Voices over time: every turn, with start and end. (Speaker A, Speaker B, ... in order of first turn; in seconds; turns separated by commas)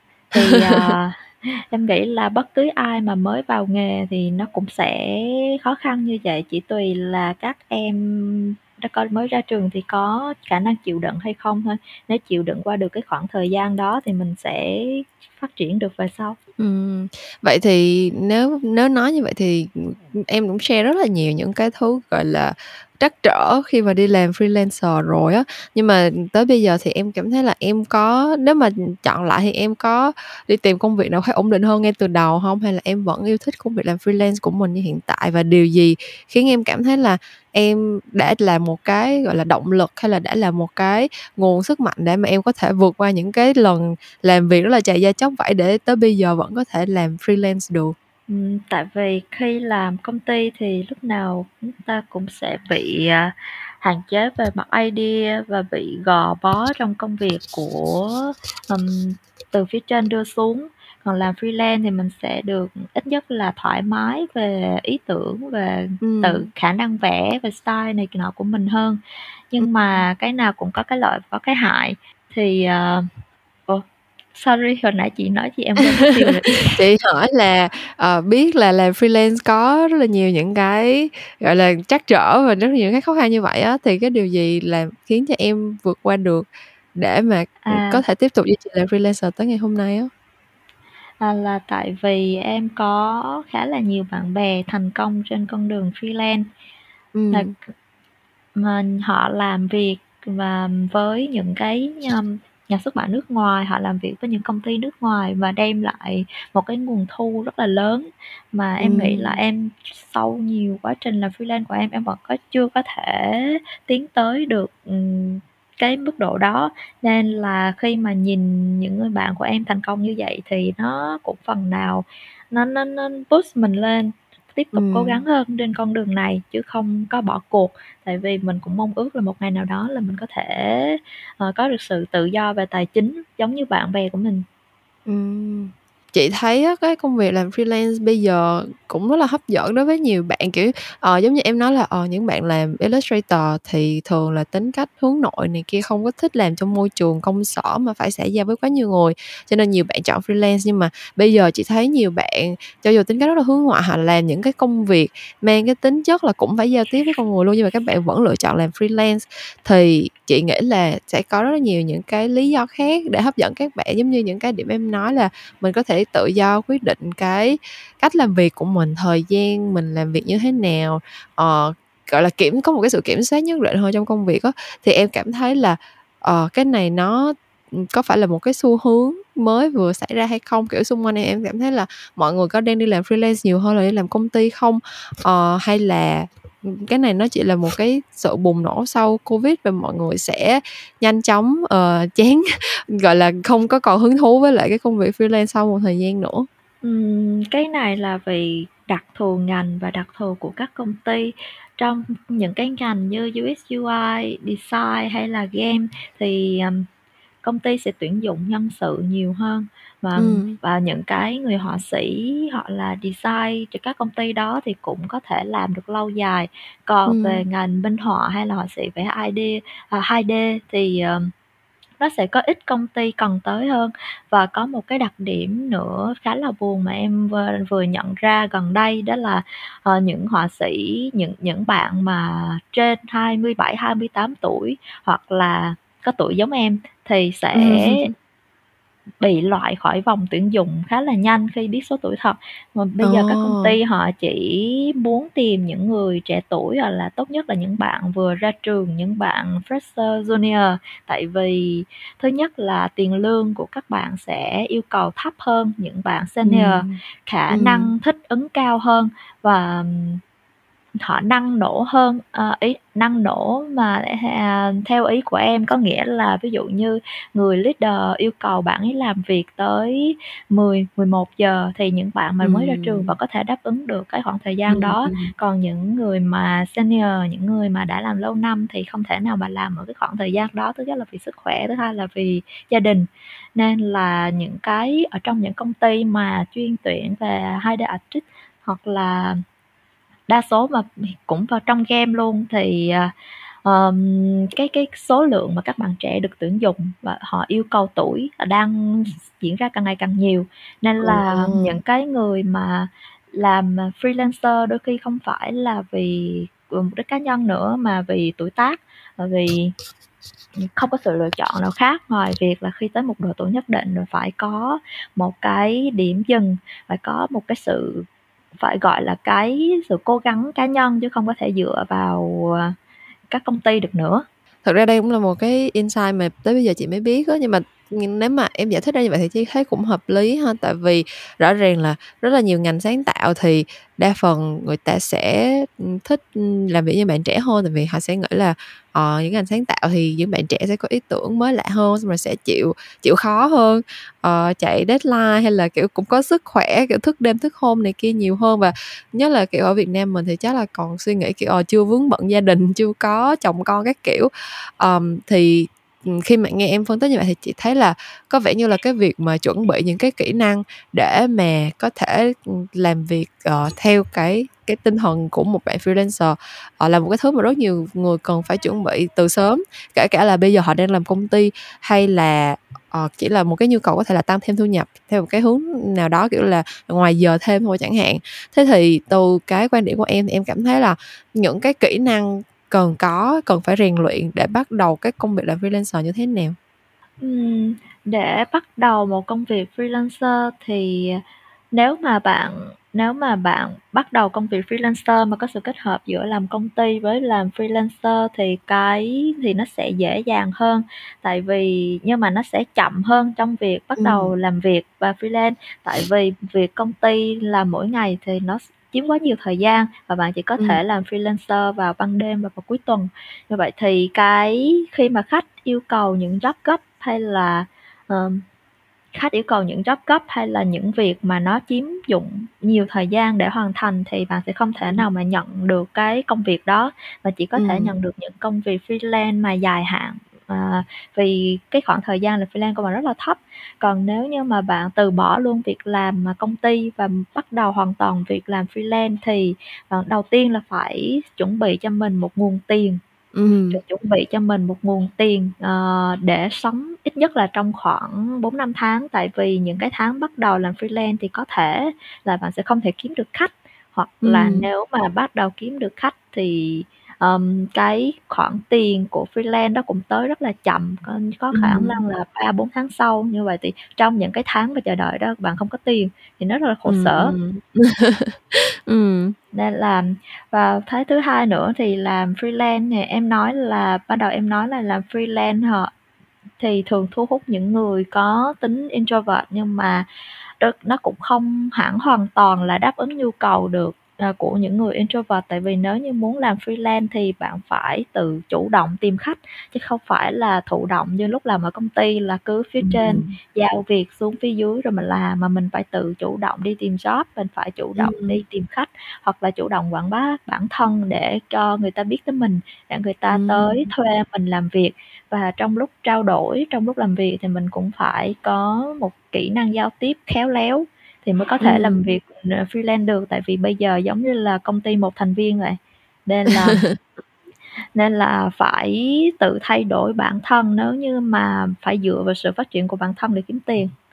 Speaker A: 0.3-16.4, Speaker B: 0.3-0.9, Speaker B: 16.6-47.9, Speaker A: 48.3-69.0, Speaker B: 66.0-66.5, Speaker A: 69.5-73.1, Speaker A: 74.3-76.8, Speaker B: 76.7-90.1, Speaker A: 87.6-88.0, Speaker A: 91.2-96.5, Speaker B: 97.1-97.5, Speaker A: 98.5-134.4, Speaker B: 108.8-109.4, Speaker B: 124.7-125.2, Speaker B: 135.1-196.5, Speaker A: 196.8-206.9, Speaker A: 207.4-221.3, Speaker B: 210.2-210.6, Speaker B: 217.1-217.4, Speaker A: 222.0-238.1, Speaker B: 237.5-238.1, Speaker A: 239.2-260.2, Speaker B: 243.0-243.7, Speaker B: 256.4-257.0, Speaker B: 257.5-257.9, Speaker A: 261.0-289.4, Speaker B: 272.4-273.1, Speaker B: 274.7-275.3, Speaker A: 290.3-293.1, Speaker A: 293.6-309.7, Speaker B: 301.0-301.8, Speaker A: 310.6-322.7, Speaker A: 323.3-324.2, Speaker B: 324.6-386.6, Speaker A: 387.2-391.2, Speaker A: 391.7-418.4, Speaker B: 404.0-404.3, Speaker A: 419.1-443.0, Speaker B: 427.6-427.9, Speaker B: 443.3-443.8, Speaker A: 443.7-467.4, Speaker B: 454.2-454.7, Speaker B: 461.5-462.0, Speaker B: 466.9-469.3, Speaker A: 469.5-475.9, Speaker A: 476.6-480.1, Speaker A: 480.6-516.8, Speaker B: 492.8-493.3, Speaker B: 498.0-498.4, Speaker B: 503.3-503.8, Speaker B: 511.6-512.0, Speaker B: 516.6-517.0, Speaker A: 517.9-523.9